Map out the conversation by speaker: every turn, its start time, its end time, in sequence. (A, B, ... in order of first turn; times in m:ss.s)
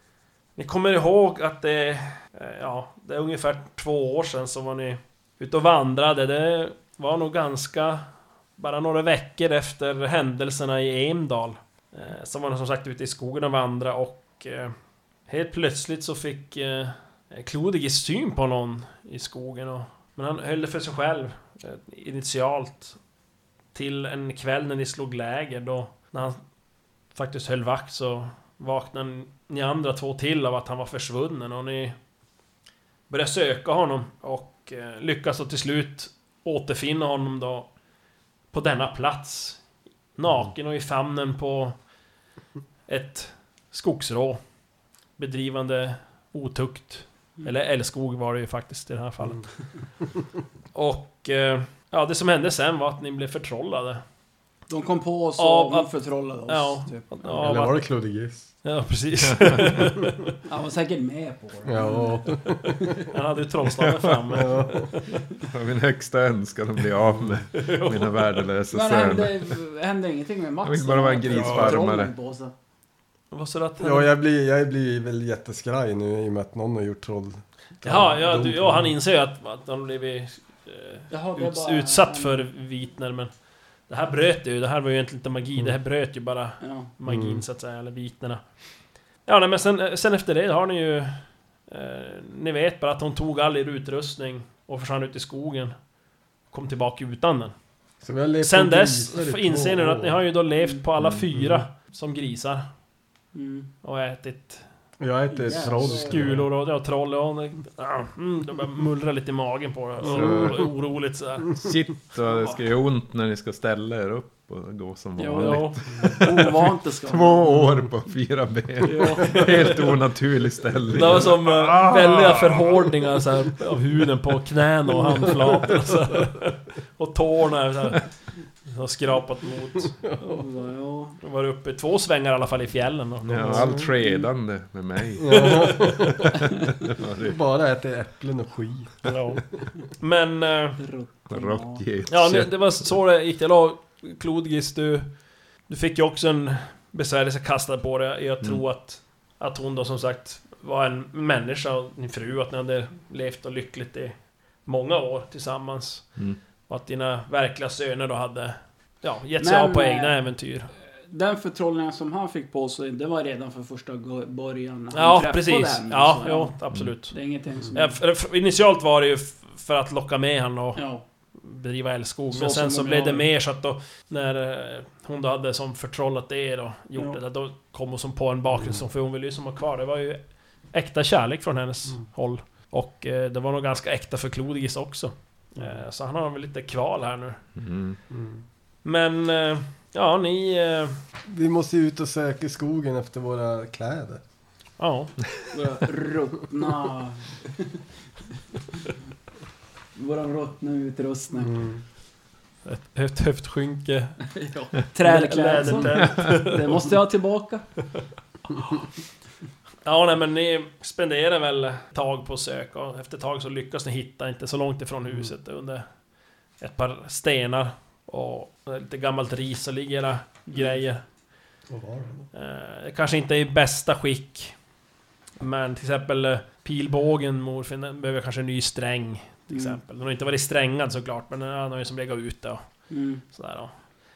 0:00.6-0:23.0 A
0:23.7-0:26.5 A
0:27.1-0:32.0 A
0:33.1-0:37.8 A
0:38.5-0:41.9 A
0:42.9-0:44.6 A
0:45.1-0:50.0 A
0:50.7-0:54.0 A
0:54.7-0:57.5 B
0:55.4-0:58.1 A
0:57.3-0:58.6 C
0:58.6-1:00.2 A
0:59.2-0:59.7 D
1:00.4-1:03.0 B
1:01.7-1:02.8 C
1:03.1-1:05.2 A
1:04.3-1:05.0 C
1:05.4-1:09.6 D
1:07.6-1:08.4 A
1:08.7-1:12.5 B
1:10.6-1:12.1 D
1:11.3-1:11.8 A
1:13.3-1:14.1 A
1:13.8-1:18.9 C
1:17.8-1:35.9 A
1:21.1-1:22.4 B
1:26.6-1:26.9 B
1:27.0-1:27.4 C
1:36.5-1:37.6 A
1:38.0-1:40.2 C
1:38.4-1:42.7 A
1:41.0-1:41.3 D
1:41.4-1:41.6 C
1:43.3-1:43.7 B
1:43.8-1:44.6 A
1:45.0-1:46.4 C
1:45.3-1:46.4 B
1:45.6-1:51.6 A
1:50.1-1:50.5 C
1:50.1-1:50.8 D
1:51.6-2:02.7 D
1:55.2-1:57.7 B
1:55.4-1:55.8 A
1:58.8-1:59.7 B
1:59.2-1:59.7 A
2:00.9-2:10.0 A
2:10.0-2:10.4 C
2:10.2-2:11.2 B
2:11.2-2:13.8 A
2:13.2-2:16.0 D
2:13.4-2:13.9 C
2:15.2-2:16.4 C
2:16.7-2:17.4 D
2:17.2-2:19.1 C
2:19.0-2:20.8 A
2:20.8-2:22.0 B
2:21.3-2:22.9 D
2:22.1-2:40.7 A
2:39.4-2:48.0 B
2:44.9-2:47.2 A
2:47.7-3:07.5 A
2:50.8-2:51.0 B
2:52.3-2:53.3 B
2:58.6-2:58.8 C
3:07.6-3:08.0 D
3:08.1-3:08.4 C
3:08.8-3:11.0 A
3:11.3-3:14.3 C
3:14.8-3:15.2 A
3:15.5-3:17.8 B
3:19.9-3:21.7 B
3:21.4-3:21.8 C
3:22.6-3:24.3 A
3:24.3-3:27.9 B
3:25.0-3:26.9 A
3:26.1-3:26.4 D
3:29.8-3:41.1 A
3:40.5-3:40.8 B
3:41.7-3:42.3 C
3:42.3-3:44.7 A
3:45.4-3:53.8 A
3:49.5-3:49.8 B
3:52.9-3:53.2 B